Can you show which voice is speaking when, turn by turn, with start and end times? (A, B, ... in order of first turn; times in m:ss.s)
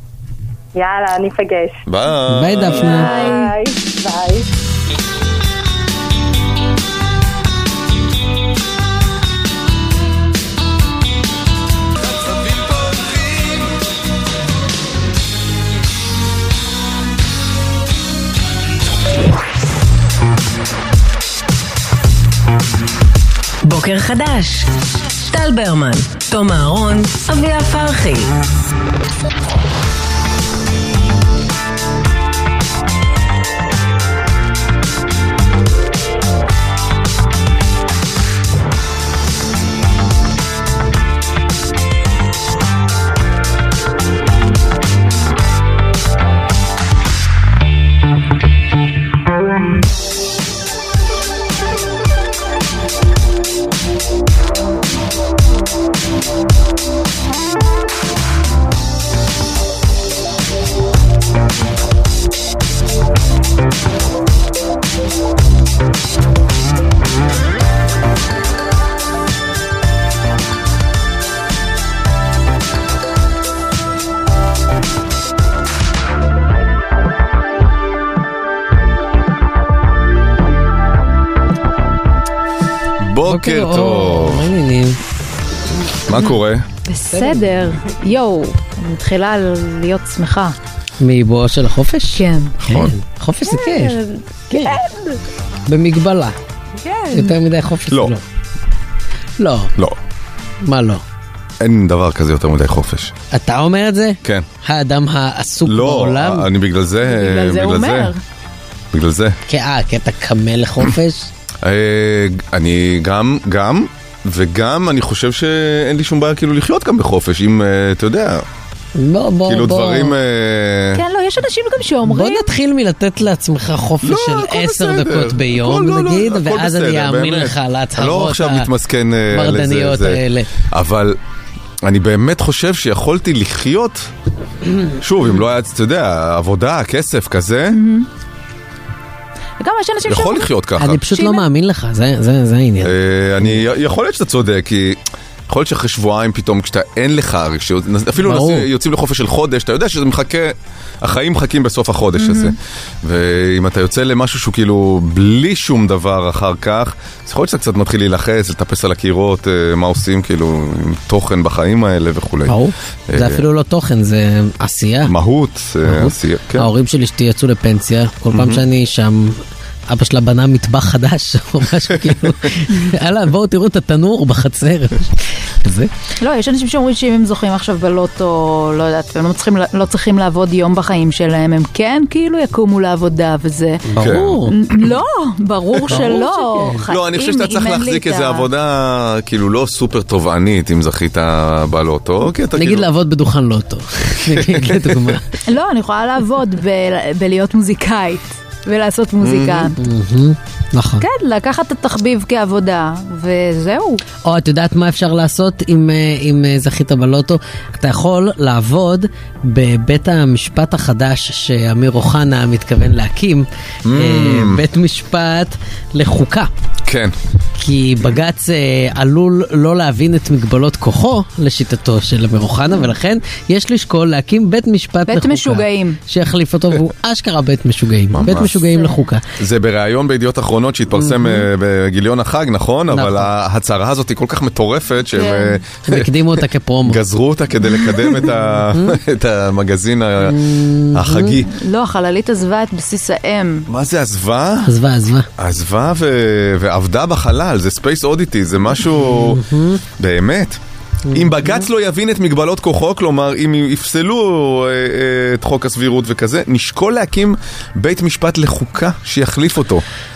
0:00.7-0:01.8 A
0:01.8-0:02.9 B
0:02.3-0:03.1 C
0:02.7-0:03.5 D
0:02.8-0:04.5 A
0:23.6-0:24.7 E
0:25.2-0:28.3 E
1:23.0-1:24.5 B
1:23.3-1:25.0 C
1:26.1-1:26.6 B
1:26.9-1:30.6 D
1:27.1-1:27.4 C
1:31.0-1:34.8 C
1:32.1-1:32.6 D
1:32.6-1:32.9 B
1:33.4-1:35.2 D
1:35.7-1:36.3 C
1:36.8-1:37.4 D
1:37.1-1:38.2 C
1:39.4-1:39.7 C
1:40.6-1:41.0 C
1:41.6-1:43.1 B
1:43.3-1:46.5 C
1:45.6-1:48.1 B
1:47.0-1:48.2 D
1:48.9-1:49.4 B
1:49.5-1:51.3 C
1:51.6-1:58.4 B
1:59.0-2:00.1 C
1:59.5-2:01.0 B
2:00.9-2:02.5 D
2:02.0-2:08.7 C
2:04.0-2:11.2 B
2:09.3-2:10.5 C
2:11.8-2:14.1 B
2:15.0-2:17.8 B
2:17.7-2:18.1 D
2:19.6-2:20.5 D
2:20.1-2:21.0 B
2:20.8-2:23.6 C
2:21.1-2:21.4 D
2:22.8-2:42.6 B
2:28.2-2:28.6 C
2:32.2-2:32.5 D
2:42.4-2:45.1 C
2:43.1-2:43.4 B
2:45.1-2:46.7 B
2:45.8-2:49.4 C
2:48.3-2:48.6 B
2:49.9-2:55.9 C
2:56.2-3:03.8 D
3:03.9-3:04.5 C
3:04.0-3:04.4 B
3:04.5-3:08.4 D
3:05.8-3:06.8 C
3:06.9-3:12.9 B
3:12.5-3:15.2 C
3:14.2-3:15.2 B
3:15.5-3:19.8 D
3:19.2-3:19.7 B
3:19.8-3:21.0 C
3:21.0-3:24.0 D
3:24.2-3:36.5 C
3:33.8-3:34.6 B
3:36.8-3:37.1 B
3:37.6-3:49.2 C
3:45.1-3:46.0 D
3:48.1-3:48.6 B
3:49.4-3:56.1 B
3:51.0-3:51.4 C
3:52.9-3:53.3 C
3:55.1-3:55.6 D
3:55.8-3:57.0 C
3:56.8-4:01.5 B
3:58.6-3:59.0 C
4:00.2-4:01.4 C
4:01.4-4:03.7 D
4:03.7-4:04.7 B
4:04.6-4:05.3 C
4:05.4-4:09.4 B
4:09.0-4:09.8 C
4:10.0-4:10.6 B
4:11.1-4:11.6 C
4:11.1-4:19.8 B